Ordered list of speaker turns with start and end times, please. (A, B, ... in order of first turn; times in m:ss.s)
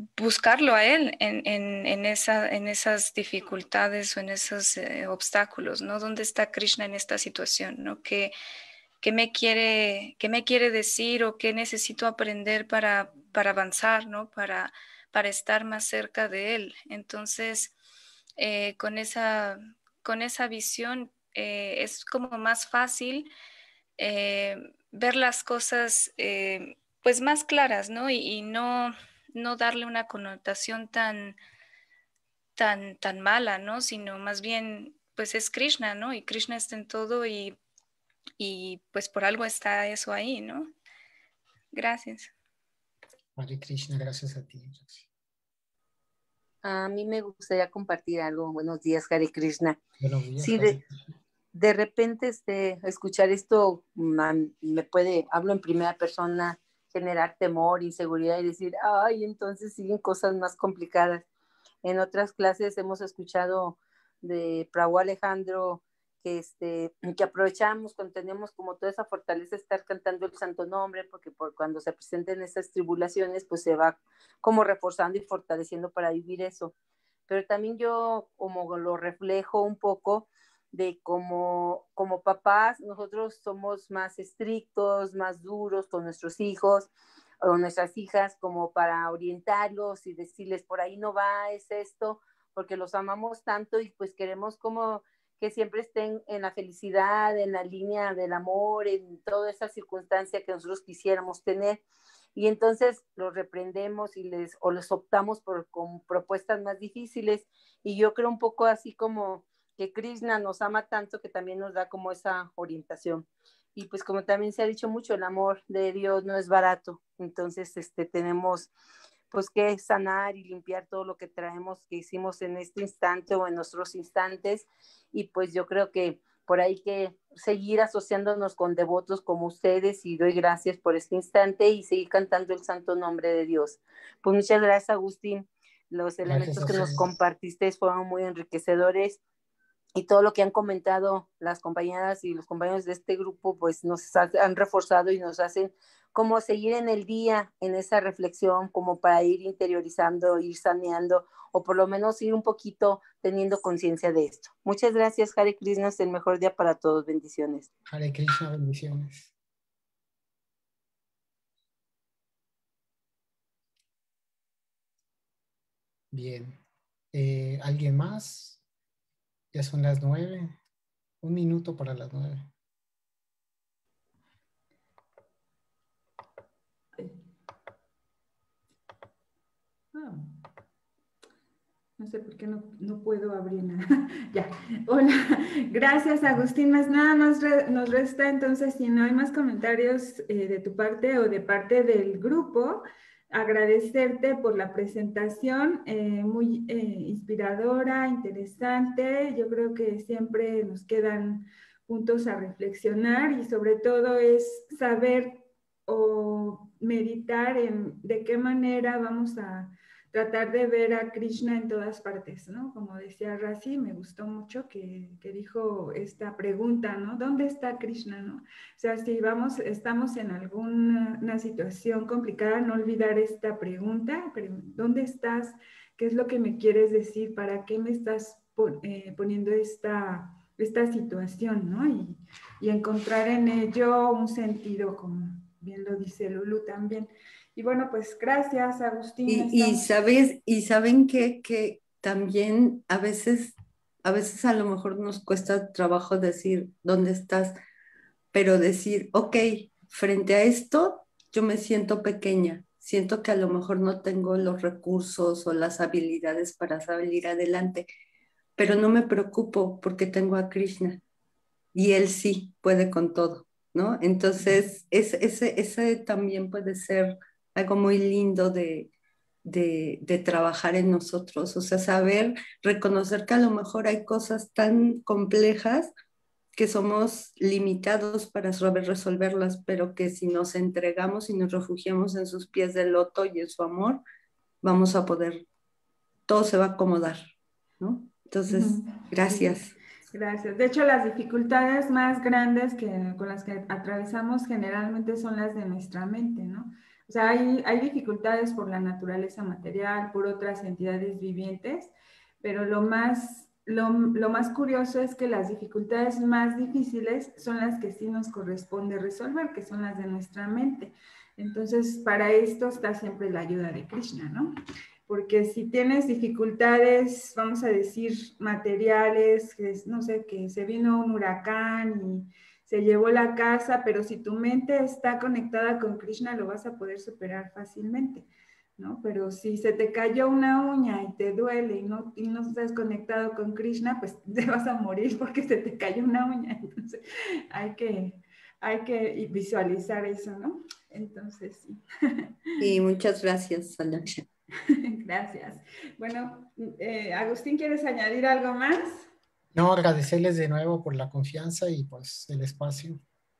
0:00.2-0:08.3 A
0:09.0-0:17.7 A
0:18.4-0:23.3 A
0:24.0-0:31.4 A
0:32.6-0:37.6 A
0:38.4-0:40.7 A
0:41.7-0:42.3 A
0:43.4-0:45.1 B
0:46.6-0:49.8 C
0:50.0-0:50.8 B
0:50.4-0:50.8 C
0:51.5-1:01.2 C
1:01.8-1:16.7 C
1:17.3-1:26.9 C
1:27.4-1:41.8 C
1:42.4-1:58.7 C
1:59.3-2:19.2 C
2:16.2-2:17.0 B
2:19.9-2:37.7 C
2:37.9-2:39.3 B
2:46.1-2:46.6 B
2:47.1-2:48.6 B
2:49.5-2:50.6 B
2:51.2-2:52.5 B
2:59.9-3:00.4 D
3:02.0-3:59.9 D
3:59.3-4:07.6 E
4:08.3-4:17.9 E
4:18.6-4:21.0 E
4:21.7-4:28.9 E
4:29.4-4:35.9 E
4:36.5-4:44.0 E
4:44.6-4:45.4 E
4:46.3-4:49.7 E
4:48.5-5:14.5 D
5:15.1-5:28.3 D
5:28.8-5:42.6 D
5:42.6-5:44.2 E
5:44.6-5:49.1 D
5:49.5-5:53.0 B